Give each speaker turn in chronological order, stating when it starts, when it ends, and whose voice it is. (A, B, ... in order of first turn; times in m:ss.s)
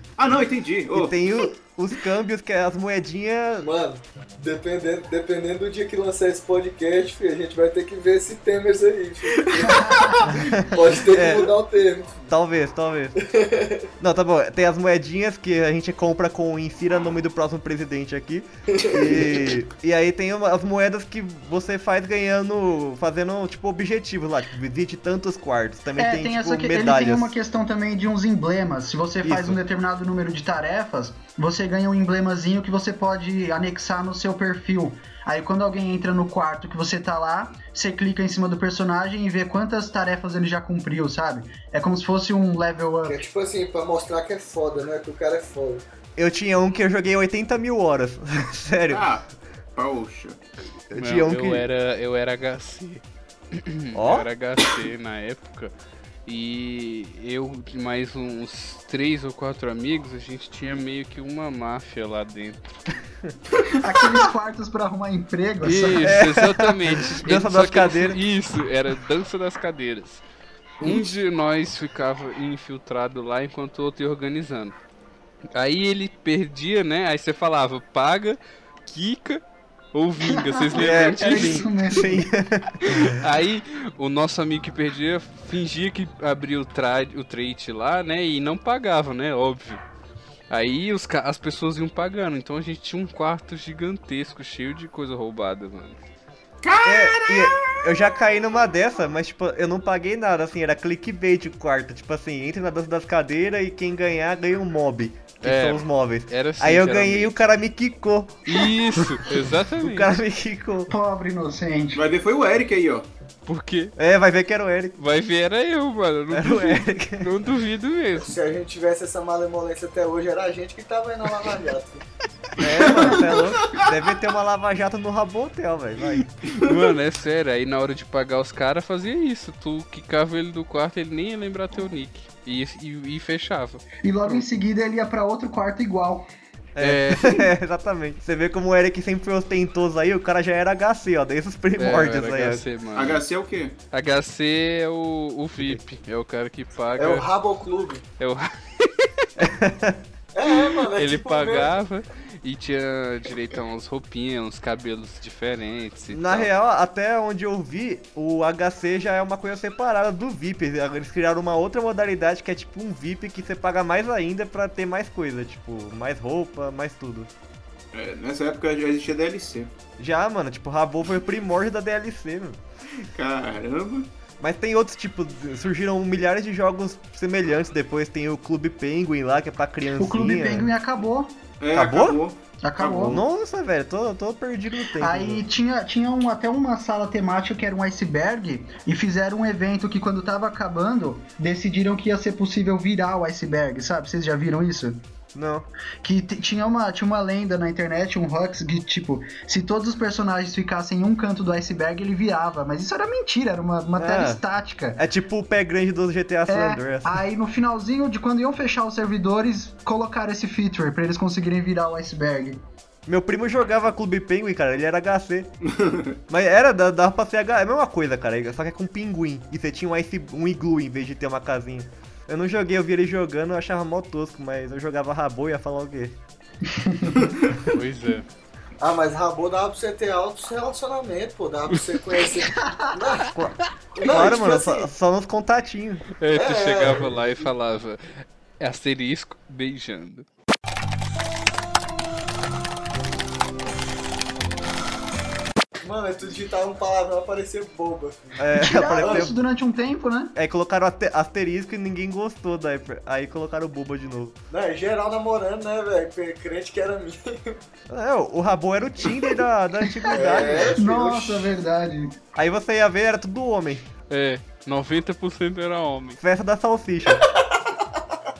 0:00.2-0:01.2 A
0:00.9-0:03.7 B
0:03.6-0:12.2 C
0:09.7-0:10.2 D
0:10.3-0:11.5 B
0:12.3-0:13.2 B
0:13.2-0:13.9 C
0:14.0-0:27.4 B
0:18.8-0:19.4 C
0:26.0-0:43.2 D
0:29.2-0:29.6 B
0:43.0-0:45.8 C
0:46.2-0:49.1 B
0:48.9-0:50.4 A
0:50.9-0:51.6 B
0:51.0-0:55.7 E
0:53.9-0:54.3 B
0:56.3-1:02.6 E
1:03.8-1:06.0 D
1:05.6-1:10.2 E
1:06.0-1:08.2 B
1:10.8-1:14.8 E
1:15.6-1:19.4 E
1:19.9-1:21.7 E
1:20.2-1:22.2 D
1:20.8-1:23.2 B
1:22.8-1:29.8 E
1:30.5-1:36.0 E
1:36.6-1:37.8 A
1:36.8-1:48.7 B
1:45.4-1:47.4 E
1:48.5-1:50.1 E
1:49.8-1:50.9 B
1:50.9-1:52.0 D
1:51.9-1:53.1 A
1:53.5-1:53.9 E
1:54.0-1:55.0 B
1:55.0-1:58.4 E
1:56.3-1:57.3 B
1:58.2-2:02.0 C
2:02.6-2:06.4 B
2:03.1-2:03.9 A
2:06.2-2:14.4 E
2:14.0-2:16.3 D
2:16.8-2:22.6 B
2:16.8-2:17.5 E
2:21.8-2:23.2 E
2:22.9-2:23.8 A
2:23.9-2:27.3 E
2:27.0-2:28.0 C
2:28.2-2:29.2 E
2:29.4-2:30.0 B
2:30.3-2:31.7 C
2:30.9-2:36.5 E
2:36.1-2:47.3 B
2:47.9-2:49.7 A
2:50.0-2:52.6 B
2:53.0-2:54.1 A
2:54.4-3:00.7 B
3:00.0-3:01.4 D
3:01.6-3:03.2 A
3:01.7-3:02.2 B
3:02.6-3:03.2 D
3:03.0-3:05.4 B
3:05.0-3:15.0 D
3:15.3-3:15.7 B
3:16.0-3:25.0 D
3:24.0-3:24.4 B
3:25.0-3:27.2 B
3:26.5-3:32.6 D
3:33.1-3:35.5 B
3:35.7-3:36.2 A
3:36.3-3:46.2 B
3:46.7-3:47.2 D
3:47.1-3:47.8 A
3:47.7-3:48.3 E
3:48.8-3:53.3 C
3:51.7-3:52.0 E
3:52.6-3:52.9 D
3:53.3-3:56.1 B
3:53.9-3:54.9 C
3:56.2-4:00.3 E
3:56.3-3:57.4 C
4:05.8-4:08.5 C
4:08.4-4:09.4 B
4:08.6-4:10.3 D
4:09.0-4:09.3 C
4:10.3-4:14.4 B
4:14.5-4:17.6 C
4:17.9-4:20.8 B
4:20.1-4:21.5 C
4:20.8-4:22.2 D
4:22.4-4:23.9 B
4:24.1-4:26.2 E
4:26.2-4:27.2 B
4:27.4-4:28.0 C